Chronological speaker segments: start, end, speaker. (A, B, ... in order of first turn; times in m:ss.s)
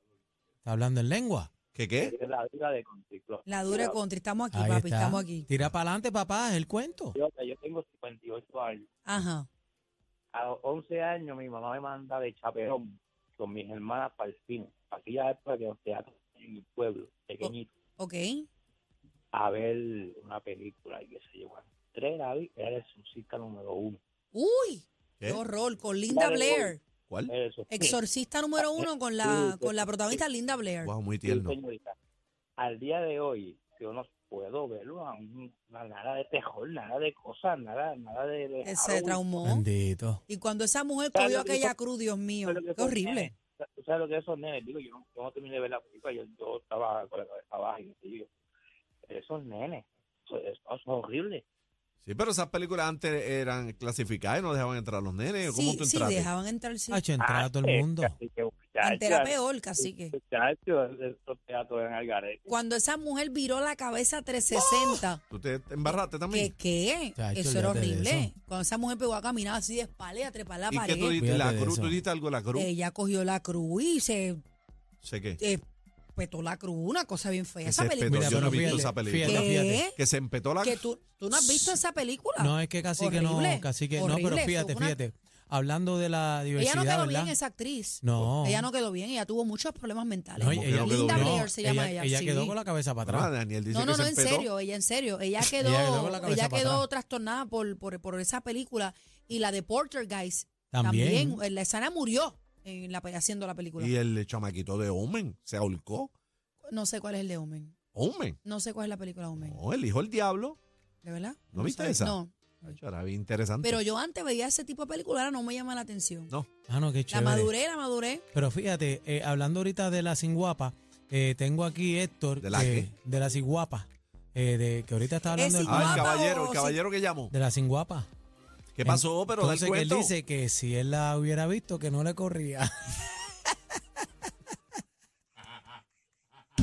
0:00.6-0:01.5 A
0:01.7-0:02.2 B
0:02.0-0:03.9 C
0:03.5-0:05.5 D
0:04.5-0:07.2 A
0:07.2-0:08.9 C
0:09.0-0:09.5 D
0:10.3-0:17.7 C
0:17.4-0:18.5 D
0:19.3-0:24.0 C
0:24.3-0:26.8 D
0:26.1-0:26.8 C
0:27.3-0:28.0 C
0:27.7-0:30.9 D
0:28.8-0:29.9 C
0:30.8-0:31.6 B
0:31.2-0:31.9 C
0:32.6-0:39.2 C
0:38.6-0:39.7 D
0:39.4-0:40.2 A
0:40.3-0:43.3 D
0:41.2-0:41.7 C
0:42.4-0:48.3 C
0:49.1-0:51.4 C
0:52.0-0:56.3 B
0:55.4-0:57.0 D
0:56.9-0:58.1 A
0:57.2-0:59.4 C
0:58.8-1:00.2 D
1:00.1-1:02.5 C
1:02.5-1:05.2 D
1:05.3-1:06.5 B
1:05.8-1:11.2 D
1:07.2-1:08.3 A
1:10.7-1:12.7 B
1:11.1-1:12.0 A
1:12.5-1:14.4 D
1:15.0-1:15.4 B
1:16.2-1:20.0 D
1:17.6-1:20.8 B
1:18.1-1:19.9 A
1:20.6-1:25.0 D
1:21.4-1:21.8 A
1:22.4-1:27.4 A
1:26.6-1:32.6 D
1:28.0-1:28.7 A
1:30.4-1:33.3 A
1:30.5-1:31.5 B
1:33.0-1:34.5 B
1:33.7-1:44.0 D
1:35.6-1:36.8 A
1:40.7-1:41.4 A
1:43.8-1:46.1 B
1:46.7-1:47.8 D
1:48.0-1:48.4 B
1:48.4-1:49.6 D
1:49.4-1:50.6 B
1:51.0-1:52.8 D
1:51.5-1:53.8 B
1:53.6-1:56.3 D
1:56.7-1:57.5 A
1:57.1-1:58.2 D
1:58.3-2:06.1 A
2:02.4-2:02.9 B
2:05.4-2:06.8 D
2:05.6-2:07.3 B
2:07.3-2:08.1 A
2:08.8-2:10.1 B
2:08.8-2:13.2 A